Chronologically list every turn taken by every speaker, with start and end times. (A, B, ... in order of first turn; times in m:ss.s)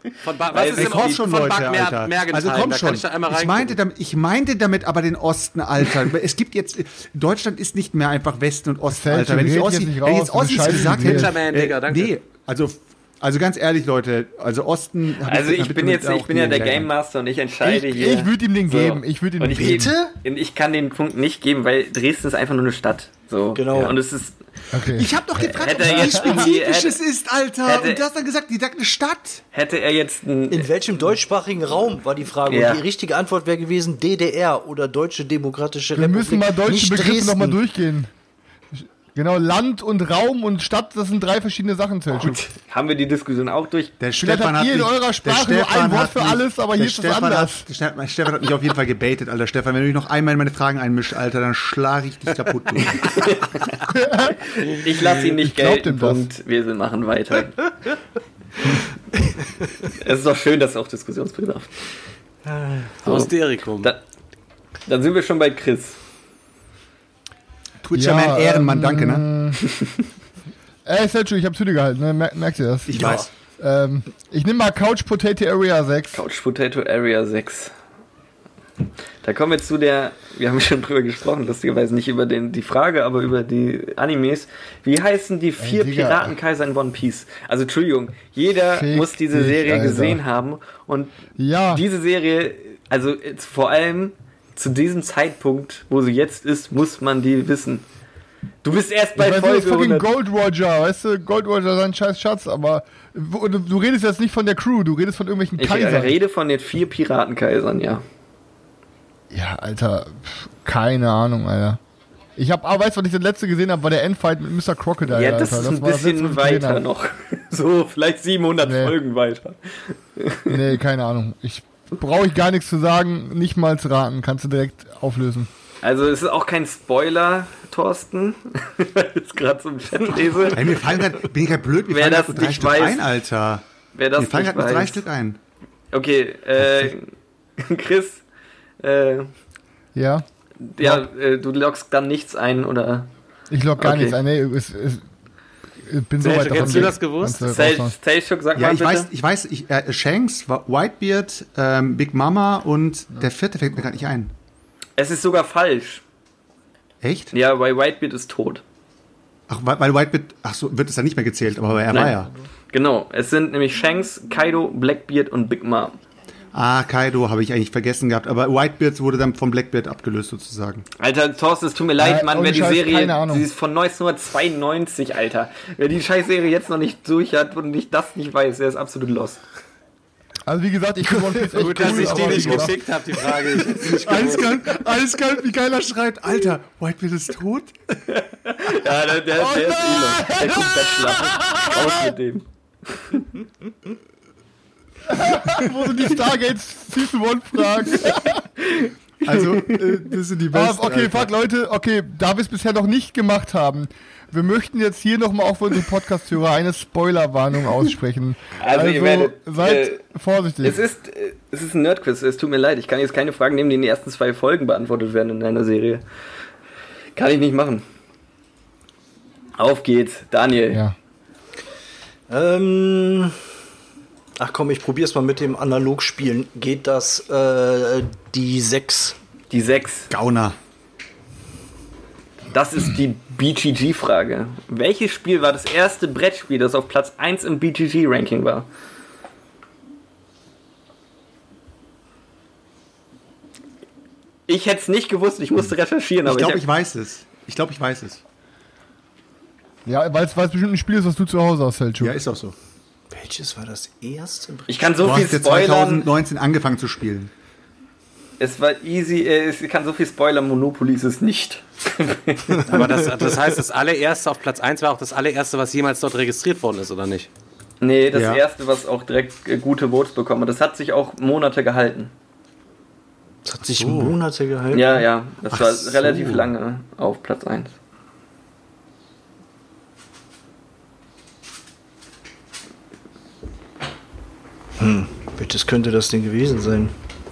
0:00.2-0:03.8 A
0:00.5-0:01.2 B
0:00.7-0:16.9 C
0:08.9-0:11.3 D
0:10.6-0:12.2 A
0:15.2-0:24.4 B
0:17.6-0:20.0 D
0:19.6-0:20.1 E
0:23.6-0:24.0 E
0:24.7-0:26.4 D
0:24.9-0:29.4 C
0:25.5-0:27.0 B
0:27.6-0:28.0 B
0:29.5-0:30.7 B
0:30.5-0:37.6 E
0:32.5-0:32.8 B
0:35.9-0:38.1 D
0:38.7-0:42.4 D
0:42.1-0:43.9 B
0:44.0-0:53.2 C
0:44.2-0:47.6 D
0:53.0-0:53.8 B
0:53.9-0:54.4 D
0:54.4-0:57.7 B
0:55.2-0:56.3 D
0:59.1-0:59.5 E
0:59.9-1:01.7 B
1:02.4-1:03.0 E
1:03.0-1:03.9 A
1:03.0-1:04.0 B
1:04.9-1:06.0 B
1:07.8-1:09.3 C
1:07.9-1:09.7 D
1:10.8-1:16.2 D
1:12.9-1:13.3 C
1:16.1-1:17.7 B
1:19.2-1:31.1 B
1:25.6-1:26.4 D
1:28.7-1:30.2 D
1:31.4-1:31.8 D
1:31.7-1:37.8 B
1:38.6-1:40.1 B
1:39.2-1:46.2 D
1:45.6-1:48.0 B
1:49.3-1:51.8 D
1:52.4-1:56.8 D
1:55.1-2:00.6 B
1:58.6-1:59.0 D
2:00.5-2:05.5 D
2:05.8-2:11.0 B
2:10.5-2:13.6 C
2:11.9-2:13.0 B
2:13.9-2:15.0 B
2:14.2-2:15.4 C
2:15.9-2:18.2 B
2:18.8-2:19.3 B
2:20.0-2:20.2 D
2:20.6-2:23.1 B
2:23.5-2:25.0 D
2:23.8-2:24.2 B
2:25.8-2:28.0 D
2:26.2-2:27.6 A
2:27.5-2:29.1 B
2:28.6-2:34.3 C
2:35.0-2:36.0 B
2:37.0-2:37.3 C
2:37.3-2:38.6 B
2:39.5-2:42.3 C
2:41.9-2:42.2 B
2:42.7-2:46.0 B
2:46.5-2:50.9 C
2:51.0-2:59.4 B
2:52.0-2:53.4 D
3:00.5-3:02.8 D
3:01.0-3:03.4 E
3:01.6-3:04.6 A
3:03.9-3:08.0 C
3:08.1-3:13.2 B
3:09.4-3:12.1 D
3:15.1-3:18.4 D
3:18.6-3:19.8 B
3:19.2-3:21.3 C
3:20.5-3:30.8 D
3:28.6-3:30.0 B
3:30.6-3:36.0 B
3:37.2-3:37.8 B
3:39.6-3:40.8 B
3:42.3-3:43.4 E
3:44.4-3:49.2 E
3:49.5-3:50.1 B
3:50.1-3:50.6 C
3:52.5-3:58.7 B
4:04.5-4:06.6 B
4:06.2-4:08.2 C
4:09.9-4:12.2 D
4:12.0-4:12.6 C
4:13.1-4:14.8 E
4:14.7-4:16.1 B
4:15.0-4:17.3 C
4:18.4-4:22.8 B
4:22.7-4:27.3 A
4:22.7-4:23.0 E
4:27.8-4:32.1 B
4:28.1-4:28.4 C
4:33.4-4:35.0 E
4:33.8-4:34.2 C
4:34.7-4:37.8 B
4:35.5-4:36.5 C
4:44.8-4:46.9 E